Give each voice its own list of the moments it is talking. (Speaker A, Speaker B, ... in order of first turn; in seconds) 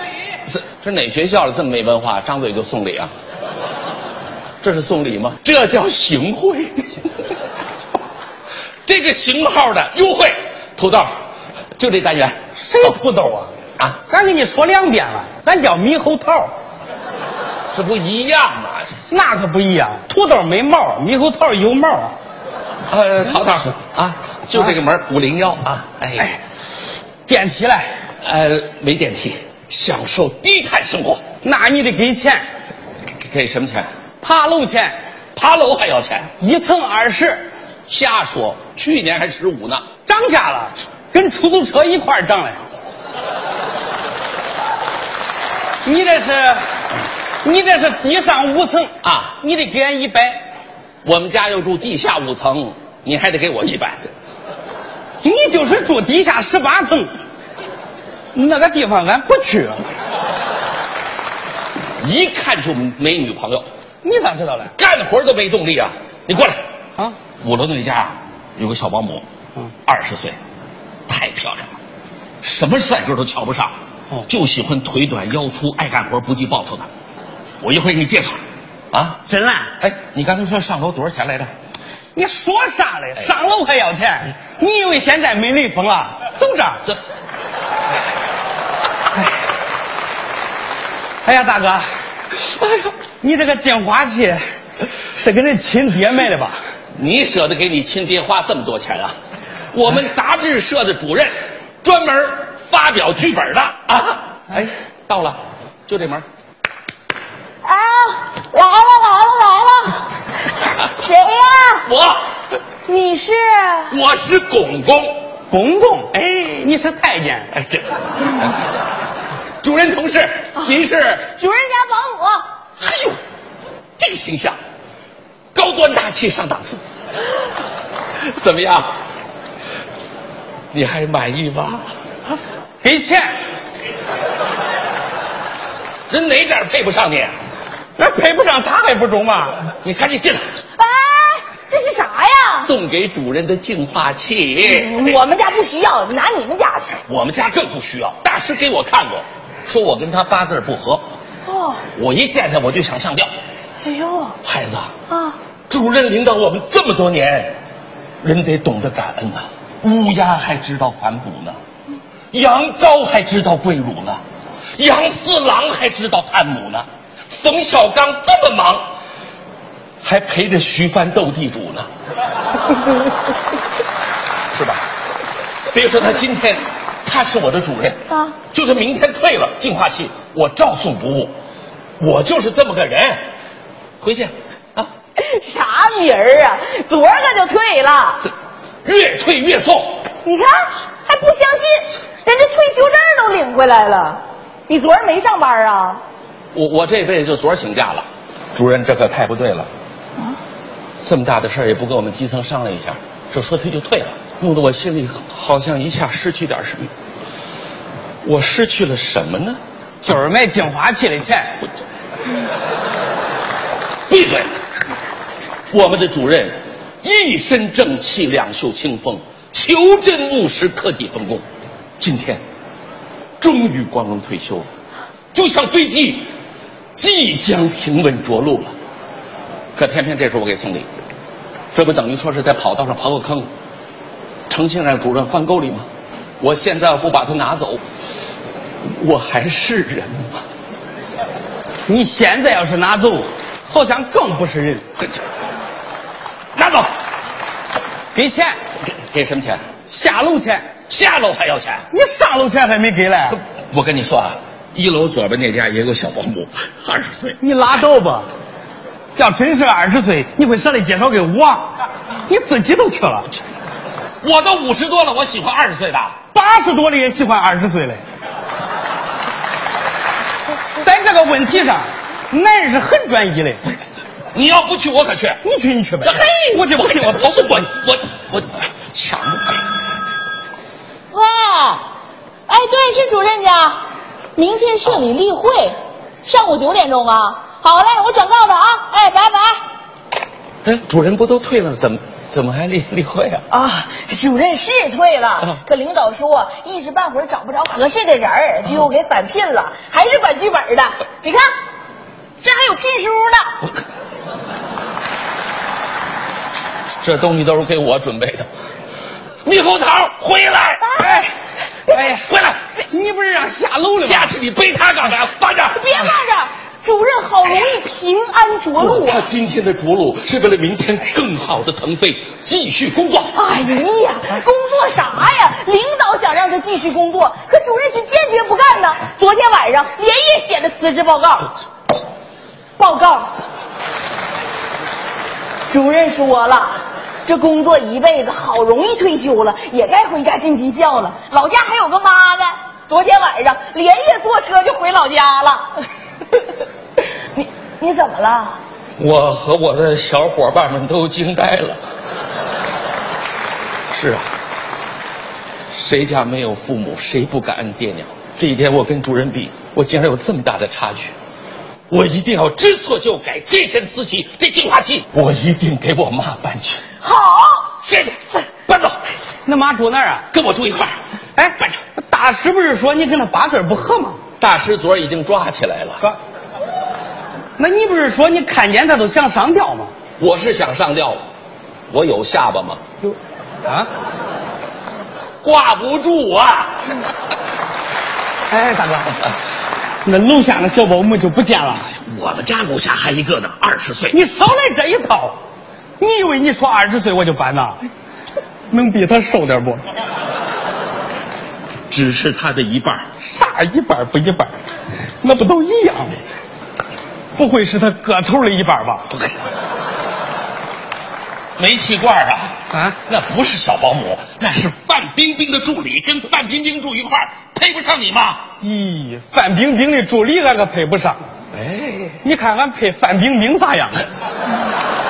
Speaker A: 0.5-3.1, 4.6-7.1, 8.9-11.1, 11.8-12.4, 17.7-19.1, 22.9-26.4, 28.2-31.2, 33.2-33.9, 35.4-36.3, 37.9-39.8, 49.0-49.4, 51.0-54.1, 62.0-63.7, 64.8-66.6, 67.4-69.2, 69.9-70.4, 71.1-71.7, 72.4-73.7, 74.3-76.9, 77.6-78.4, 78.9-79.2, 79.8-81.5, 92.3-92.9, 97.0-99.2, 99.7-106.2, 111.8-112.2, 113.9-115.2, 116.1-116.7, 117.5-118.6, 119.6-121.3, 122.8-123.2, 124.0-124.6, 125.5-126.8, 128.2-128.9, 130.7-131.8, 136.1-137.3, 139.8-140.4, 142.5-145.2, 147.1-151.0, 151.9-153.3, 154.4-154.9, 155.7-157.6, 158.2-161.6, 162.3-164.2, 164.8-168.8, 170.0-171.9, 174.5-174.8, 175.7-181.3, 182.0-183.2, 184.0-184.9, 188.8-190.0, 196.5-199.7, 201.0-206.9, 208.2-209.6, 214.1-214.5, 215.7-221.4, 222.0-222.4, 223.4-224.7, 225.3-226.3, 226.9-228.7, 229.8-230.9, 231.7-233.5, 234.5-235.9, 236.4-237.8, 239.0-240.4, 246.6-246.9, 248.9-249.6, 250.9-251.9, 253.3-257.4, 264.2-266.2, 274.3-275.4, 276.0-279.6, 290.6-293.4, 307.0-308.5, 309.4-310.9, 312.1-312.6, 314.0-315.9, 318.8-323.4, 349.0-351.8, 353.9-354.3, 355.7-361.1, 361.9-366.8, 367.8-369.0, 370.3-371.0, 374.4-376.1, 380.2-381.2, 381.9-382.8, 385.4-386.8, 392.0-394.2, 401.9-403.1, 411.6-418.4, 421.6-422.2
Speaker B: 12.6-13.5, 14.1-16.5, 19.1-22.1, 27.3-27.9, 31.4-32.4, 34.2-35.0, 36.4-37.5, 40.1-42.7, 45.8-46.6, 47.4-50.4, 55.2-57.1, 58.3-59.9, 64.0-64.7, 79.3-79.7, 82.2-86.9, 91.2-91.9, 93.2-94.4, 95.1-96.6, 115.5-117.5, 132.8-133.3, 138.0-139.6, 210.0-211.6, 241.9-244.9, 248.1-248.6, 249.9-250.7, 251.9-253.4, 257.4-258.3, 259.2-261.7, 262.3-263.3, 266.3-268.0, 270.8-273.6, 275.4-277.6, 311.0-311.3, 311.9-312.3, 312.9-314.4, 369.5-370.3, 371.4-374.2, 377.6-379.9, 388.5-389.2, 390.1-391.9, 394.1-395.4, 396.0-397.8, 398.7-399.9, 403.2-404.5, 405.2-406.2, 407.4-409.1, 412.7-413.0, 418.6-421.2, 422.2-424.1
Speaker C: 107.6-111.9, 112.9-113.9, 120.6-122.5, 140.8-142.7, 144.6-147.0, 151.5-151.8, 153.8-154.4, 155.1-155.4, 185.2-188.3, 190.2-196.0, 281.1-281.9, 282.5-283.8, 284.4-289.6, 293.5-301.5, 302.4-303.6, 310.8-311.3, 311.9-312.2, 315.7-319.3, 323.3-331.5, 332.8-333.3, 335.7-345.7, 347.3-348.6, 367.0-367.7